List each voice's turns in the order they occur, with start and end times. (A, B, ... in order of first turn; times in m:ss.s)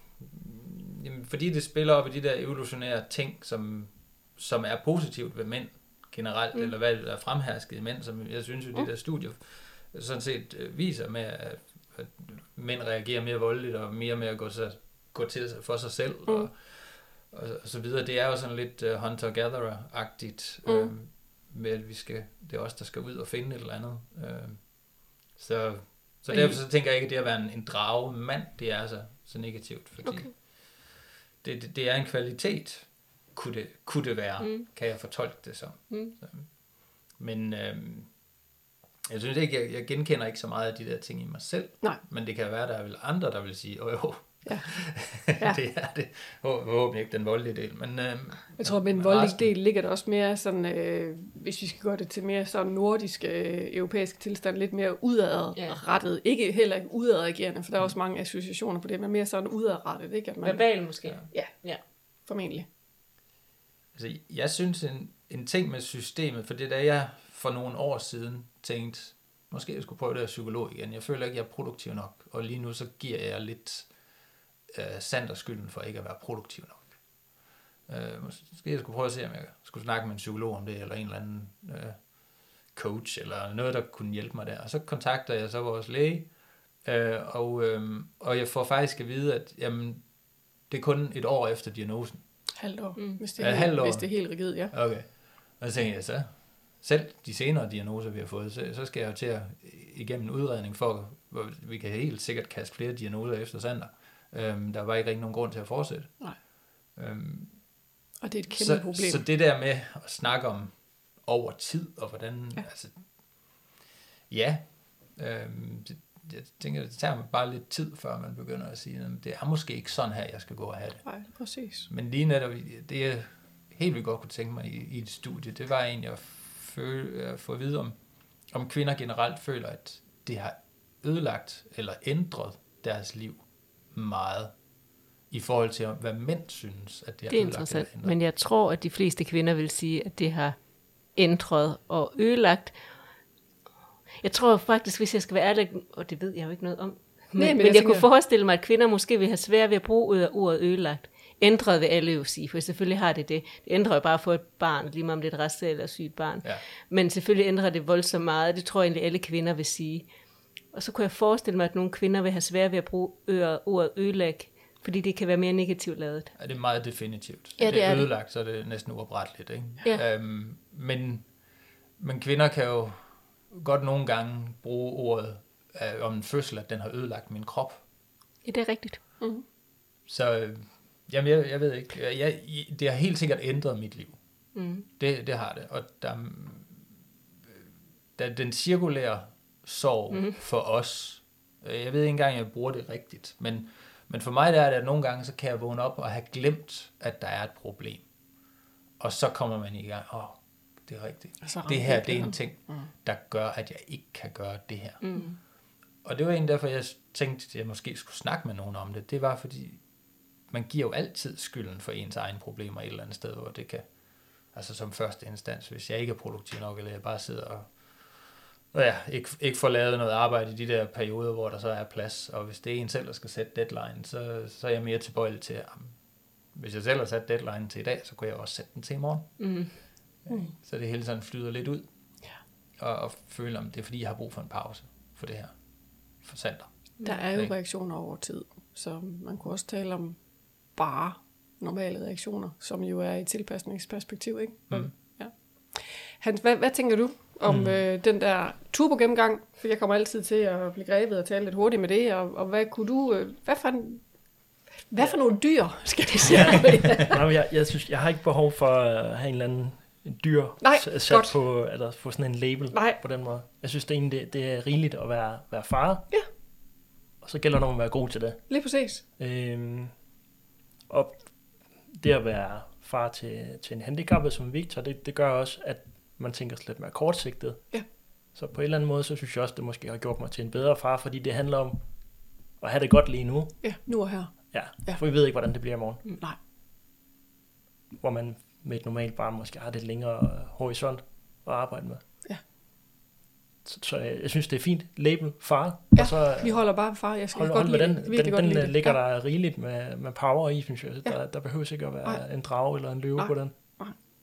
0:00.2-0:30.9 A
0:20.6-0:20.9 B
0:26.3-0:26.6 B
0:30.0-0:30.3 C
0:31.4-0:38.2 A
0:34.4-0:34.6 C
0:39.1-0:49.5 A
0:44.4-0:45.6 B
0:48.6-1:00.8 B
1:00.4-1:01.8 C
1:01.3-1:01.6 B
1:02.2-1:02.7 B
1:04.0-1:13.9 A
1:14.7-1:17.0 A
1:17.9-1:22.2 A
1:22.7-1:30.1 A
1:30.7-1:32.2 A
1:32.6-1:34.7 B
1:33.4-1:46.3 A
1:47.0-1:47.7 A
1:48.2-1:49.2 B
1:48.5-1:53.6 A
1:54.3-2:01.1 A
2:01.0-2:01.9 B
2:01.9-2:08.0 A
2:08.5-2:14.6 A
2:15.3-2:18.2 A
2:17.3-2:20.6 C
2:21.1-2:22.8 C
2:24.2-2:40.1 C
2:27.4-2:28.1 B
2:40.7-2:46.3 C
2:46.4-2:51.3 A
2:47.6-2:48.1 C
2:52.0-2:57.9 A
2:58.4-2:59.0 C
3:00.1-3:04.2 A
3:04.6-3:04.9 C
3:04.9-3:06.9 A
3:08.2-3:18.1 A
3:19.0-3:25.2 A
3:21.4-3:22.9 B
3:25.0-3:25.4 C
3:26.0-3:29.9 A
3:30.5-3:38.2 A
3:38.7-3:46.0 A
3:46.5-3:49.4 A
3:49.4-3:49.7 C
3:50.2-3:51.9 A
3:50.3-3:50.5 B
3:52.8-3:57.5 A
3:57.0-4:00.2 B
4:00.8-4:14.1 B
4:07.4-4:07.8 D
4:14.9-4:17.2 B
4:16.2-4:26.1 D
4:20.6-4:21.4 B
4:22.7-4:23.0 B
4:27.2-4:30.0 D
4:28.5-4:29.0 B
4:30.9-4:41.9 D
4:42.6-4:46.0 D
4:43.6-4:45.0 B
4:48.0-4:52.0 D
4:53.6-5:03.8 D
4:55.9-4:59.0 B
5:01.0-5:04.0 B